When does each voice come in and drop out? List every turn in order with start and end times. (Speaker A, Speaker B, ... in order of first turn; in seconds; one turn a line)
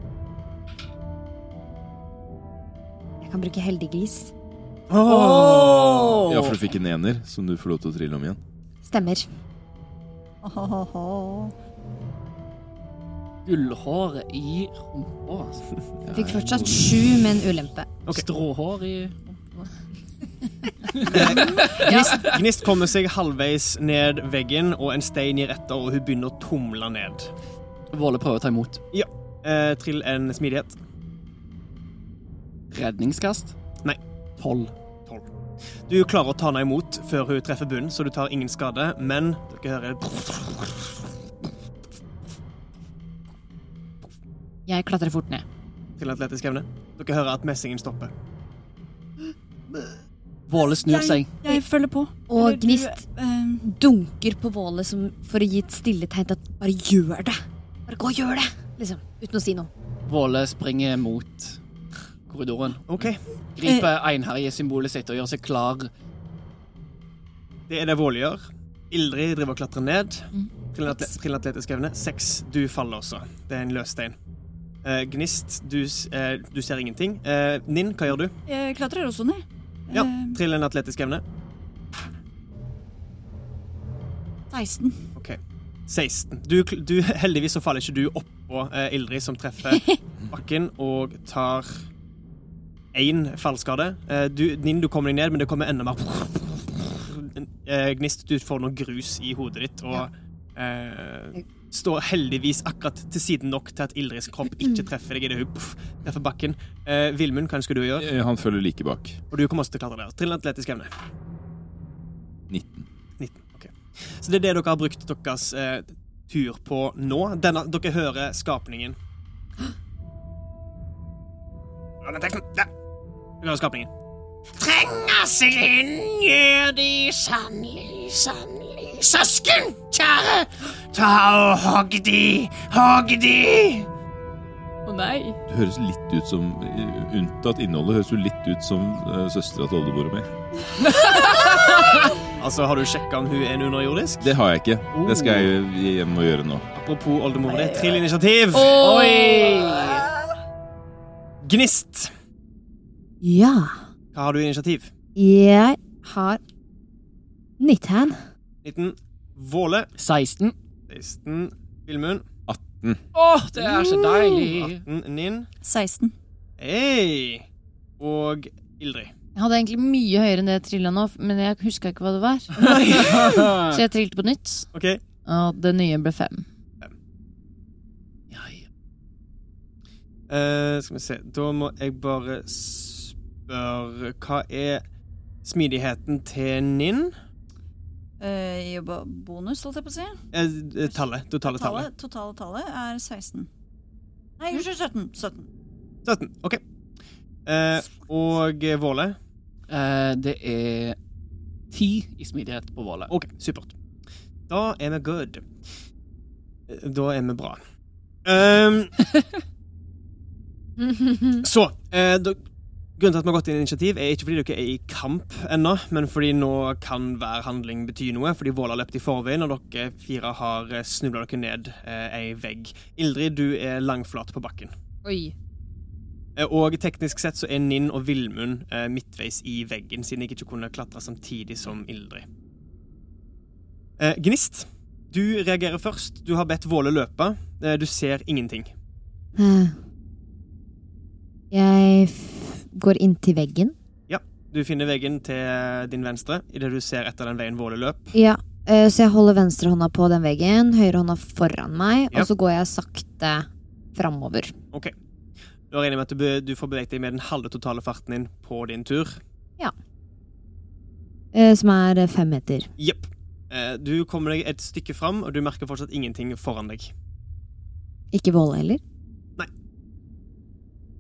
Speaker A: 3.2-4.3
Speaker B: 4.9-6.2
Speaker C: 5.0-6.5
Speaker D: 6.3-8.4
Speaker A: 8.8-9.3
Speaker E: 10.4-11.5
Speaker C: 13.4-15.6
Speaker D: 16.0-17.1
Speaker A: 16.1-17.9
Speaker C: 18.1-19.3
Speaker F: 19.4-19.7
Speaker C: 20.9-22.1
Speaker B: 21.0-27.3
Speaker C: 27.9-28.8
Speaker B: 28.9-30.8
Speaker C: 32.7-33.5
Speaker C: 34.4-34.7
Speaker B: 35.9-40.8
Speaker F: 44.6-45.4
Speaker B: 46.0-48.1
Speaker C: 50.5-51.3
Speaker E: 50.9-53.6
Speaker A: 52.3-53.0
Speaker A: 53.6-59.7
Speaker C: 60.1-61.6
Speaker C: 62.3-65.9
Speaker B: 62.9-63.2
Speaker E: 63.6-63.9
Speaker B: 67.7-74.1
Speaker B: 74.8-78.3
Speaker E: 78.5-80.4
Speaker B: 79.9-81.2
Speaker E: 84.5-85.0
Speaker B: 85.2-91.8
Speaker B: 92.9-108.1
Speaker D: 108.0-109.2
Speaker B: 109.3-110.9
Speaker D: 112.5-112.8
Speaker B: 113.2-119.0
Speaker B: 122.0-122.7
Speaker B: 123.4-123.9
Speaker G: 124.6-133.9
Speaker F: 134.9-135.4
Speaker D: 135.5-140.3
Speaker C: 141.1-141.8
Speaker B: 142.4-144.3
Speaker D: 144.2-146.7
Speaker C: 144.9-145.5
Speaker B: 146.7-148.8
Speaker C: 148.6-150.1
Speaker F: 148.6-149.5
Speaker B: 151.4-152.1
Speaker A: 153.2-153.8
Speaker B: 154.1-154.9
Speaker A: 155.2-156.4
Speaker A: 157.6-158.2
Speaker B: 158.6-159.9
Speaker C: 160.0-160.5
Speaker B: 160.9-162.2
Speaker D: 162.5-163.0
Speaker C: 163.1-164.8
Speaker A: 163.7-164.5
Speaker B: 164.8-165.5
Speaker E: 165.6-166.1
Speaker B: 166.6-167.4
Speaker B: 168.0-169.1
Speaker F: 169.3-174.7
Speaker C: 172.6-173.8
Speaker B: 174.7-175.0
Speaker F: 175.2-176.4
Speaker C: 178.3-178.7
Speaker B: 180.3-184.8
Speaker B: 185.4-187.1
Speaker E: 188.2-190.2
Speaker B: 190.3-191.9
Speaker E: 191.4-193.5
Speaker E: 194.4-195.5
Speaker B: 196.0-196.6
Speaker B: 197.4-199.2
Speaker C: 199.7-200.9
Speaker C: 201.7-203.1
Speaker B: 203.1-203.7
Speaker B: 204.5-205.4
Speaker B: 206.7-207.6
Speaker B: 208.2-208.9
Speaker A: 210.8-211.4
Speaker B: 211.4-212.4
Speaker B: 213.0-224.7
Speaker A: 225.0-225.3
Speaker B: 226.4-232.2
Speaker B: 234.0-238.7
Speaker A: 239.3-239.8
Speaker A: 241.5-243.7
Speaker B: 244.1-248.1
Speaker A: 248.1-254.5
Speaker B: 255.7-259.2
Speaker A: 261.3-262.7
Speaker B: 262.8-266.9
Speaker A: 268.1-268.8